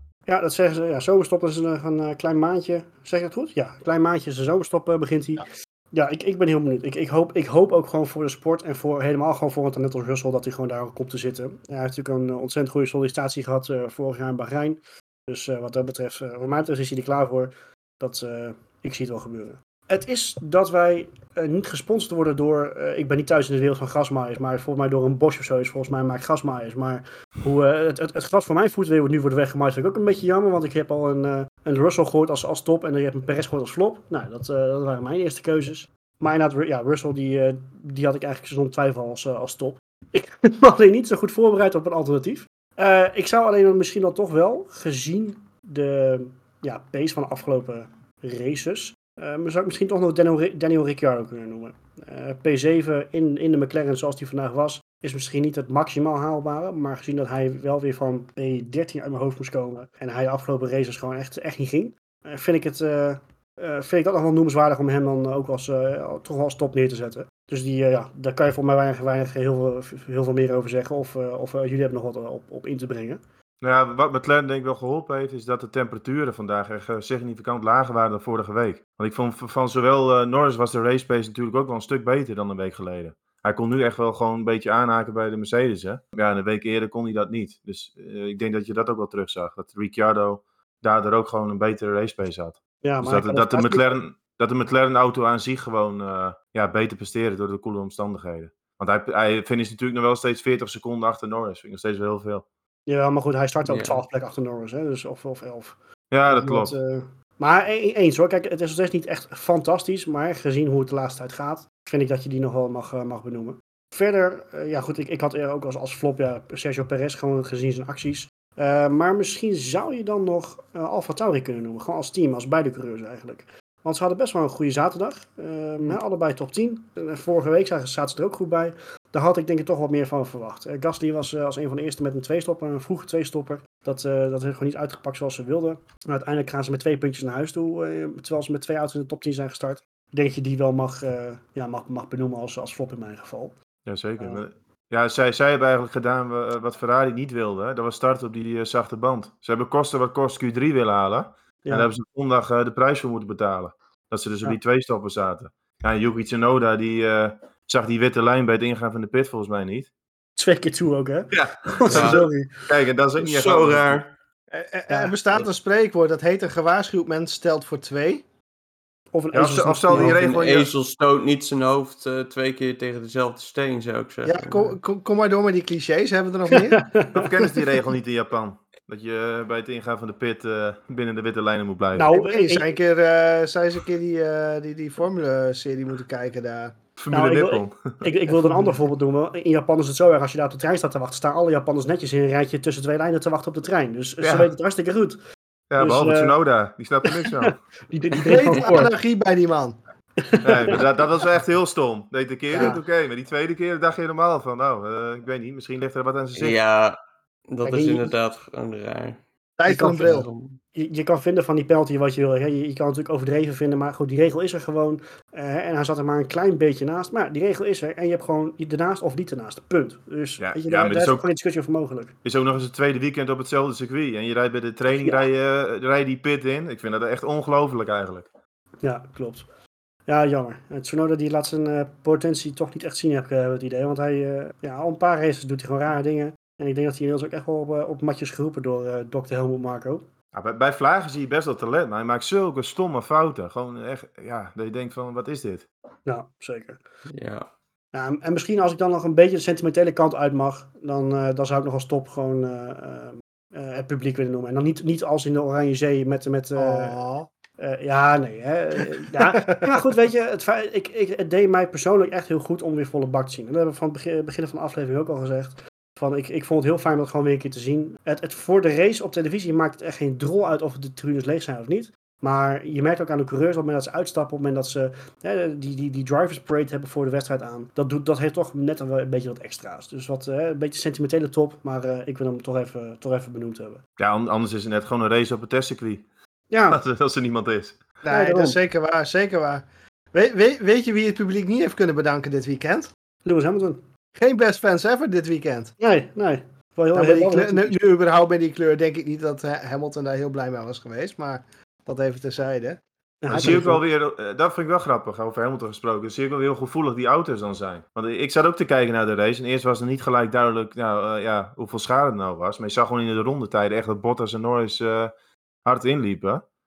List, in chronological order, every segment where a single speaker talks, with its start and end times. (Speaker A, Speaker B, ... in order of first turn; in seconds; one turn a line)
Speaker A: 0.3-73.2
Speaker B: 73.6-102.5
Speaker A: 92.8-94.0
Speaker A: 102.9-105.8
Speaker C: 103.6-104.0
Speaker B: 106.1-106.7
Speaker A: 106.3-143.6
Speaker B: 143.8-159.9
Speaker A: 160.4-162.7
Speaker B: 161.3-164.0
Speaker C: 161.9-162.2
Speaker C: 163.2-164.1
Speaker D: 164.5-168.2
Speaker A: 164.9-165.2
Speaker A: 169.1-170.2
Speaker B: 169.3-170.7
Speaker C: 169.9-174.8
Speaker D: 174.2-176.9
Speaker A: 176.5-177.4
Speaker B: 177.1-182.1
Speaker A: 181.9-182.6
Speaker D: 182.1-186.8
Speaker B: 187.0-188.0
Speaker A: 187.1-195.2
Speaker B: 194.2-194.5
Speaker B: 195.7-197.6
Speaker A: 195.8-196.4
Speaker A: 197.1-198.9
Speaker D: 198.2-199.8
Speaker A: 200.2-200.8
Speaker B: 200.4-206.6
Speaker A: 202.5-202.8
Speaker C: 206.3-206.9
Speaker C: 207.5-209.2
Speaker A: 207.6-208.1
Speaker D: 209.6-210.3
Speaker A: 209.7-210.1
Speaker C: 210.0-210.6
Speaker A: 210.7-222.2
Speaker B: 220.4-221.3
Speaker B: 222.2-228.3
Speaker A: 224.9-225.2
Speaker A: 228.8-229.5
Speaker A: 230.1-240.0
Speaker B: 240.3-245.7
Speaker A: 246.1-246.8
Speaker C: 247.1-247.5
Speaker A: 247.9-256.9
Speaker D: 256.6-257.3
Speaker A: 257.6-283.8
Speaker D: 259.0-259.8
Speaker B: 284.0-286.1
Speaker A: 286.5-286.8
Speaker B: 286.7-287.8
Speaker D: 288.0-292.9
Speaker A: 288.1-288.6
Speaker A: 293.2-293.8
Speaker D: 294.2-295.7
Speaker A: 295.8-297.8
Speaker D: 296.9-303.7
Speaker A: 303.2-303.8
Speaker B: 303.3-315.1
Speaker B: 315.6-316.4